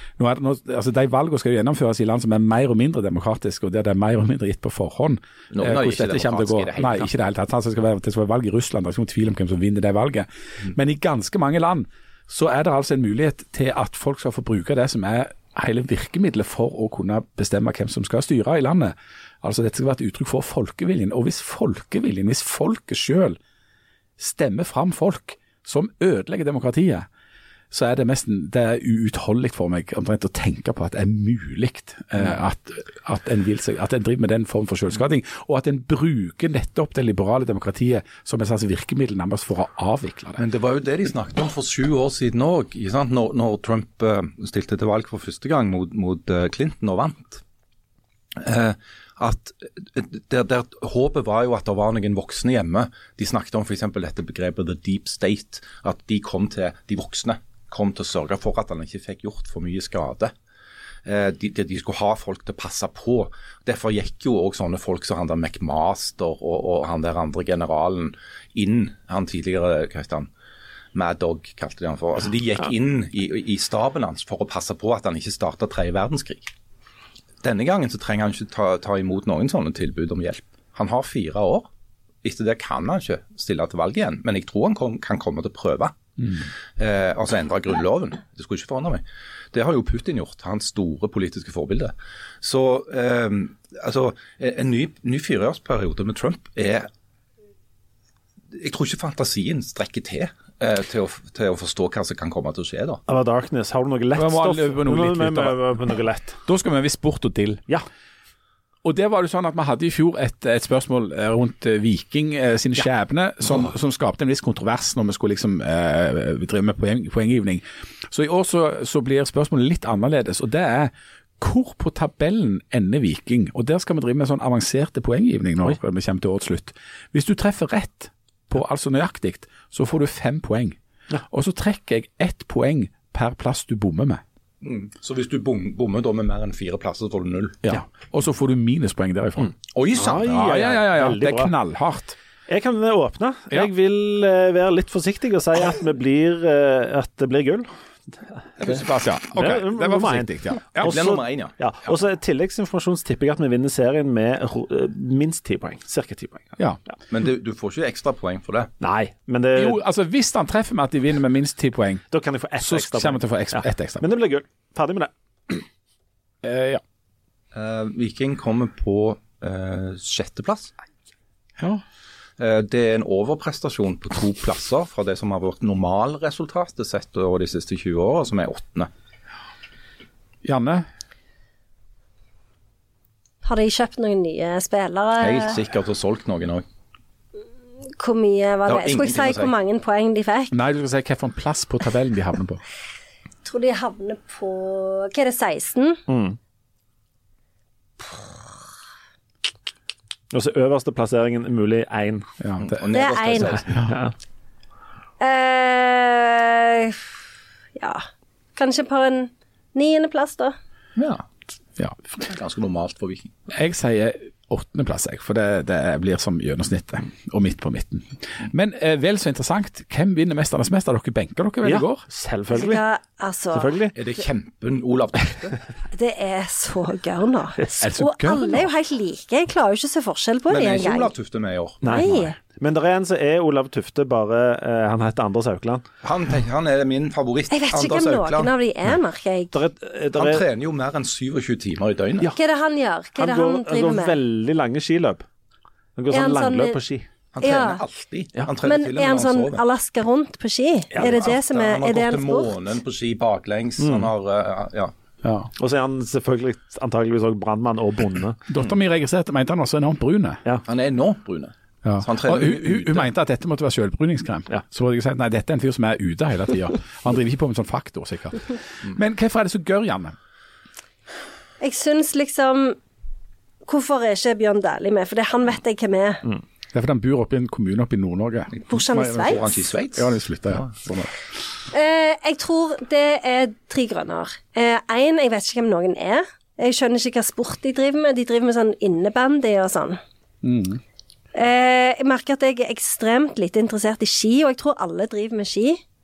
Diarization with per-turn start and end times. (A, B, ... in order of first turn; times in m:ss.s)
0:00.2-0:23.4 A
0:05.5-0:07.1 B
0:24.2-0:27.1 A
0:27.7-0:40.4 A
0:40.4-0:47.4 B
0:48.4-1:00.3 B
1:01.1-1:10.3 B
1:10.9-1:16.5 B
1:17.4-1:21.7 B
1:22.2-1:36.9 B
1:38.5-1:43.0 B
1:43.1-1:46.4 C
1:44.2-1:45.6 A
1:46.5-1:47.6 A
1:48.8-2:10.8 A
2:11.3-2:14.2 A
2:14.6-2:17.6 B
2:17.6-2:19.6 A
2:19.7-2:20.4 B
2:20.0-2:21.5 C
2:20.2-2:22.2 A
2:22.5-2:27.7 C
2:28.4-2:28.7 C
2:28.6-2:31.0 A
2:29.3-2:36.6 C
2:30.8-2:31.6 B
2:37.1-2:38.7 B
2:38.8-2:39.8 C
2:39.6-2:42.0 A
2:42.1-2:45.6 C
2:42.6-2:44.1 A
2:46.4-2:46.8 A
2:47.5-2:50.7 B
2:52.4-2:58.9 B
3:00.4-3:00.9 A
3:03.4-3:05.6 D
3:05.2-3:06.6 B
3:08.0-3:10.5 D
3:08.7-3:09.5 B
3:10.5-3:12.6 A
3:13.4-3:16.0 D
3:16.1-3:16.4 C
3:20.3-3:22.3 C
3:22.4-3:23.1 A
3:22.6-3:23.9 B
3:22.9-3:23.6 D
3:23.7-3:24.0 A
3:23.8-3:24.1 C
3:25.2-3:27.1 D
3:27.8-3:28.0 D
3:28.6-3:30.6 D
3:31.0-3:31.2 B
3:32.2-3:33.4 B
3:33.5-3:42.0 A
3:41.6-3:42.8 C
3:42.5-3:43.8 D
3:43.5-3:44.0 C
3:43.9-3:45.6 B
3:45.9-3:51.1 D
3:47.6-3:47.8 C
3:47.8-3:48.7 A
3:50.5-3:51.8 B
3:51.8-3:55.8 C
3:51.8-3:52.4 D
3:56.0-3:58.5 B
3:57.5-3:59.6 D
3:59.5-4:00.4 C
4:00.1-4:02.3 B
4:02.3-4:04.2 D
4:03.2-4:05.2 C
4:06.0-4:07.1 C
4:06.1-4:06.8 D
4:07.3-4:09.6 B
4:07.4-4:07.8 D
4:08.6-4:12.6 D
4:10.9-4:11.3 C
4:11.0-4:14.9 B
4:13.8-4:14.1 C
4:15.2-4:15.5 A
4:15.6-4:18.6 C
4:18.5-4:20.4 A
4:20.7-4:23.1 B
4:21.8-4:30.2 A
4:31.6-4:32.8 D
4:33.7-4:36.2 D
4:36.7-4:41.1 A
4:38.6-4:40.7 B
4:38.7-4:39.5 D
4:41.7-4:50.0 D
4:50.4-4:50.8 A
4:51.3-4:55.8 D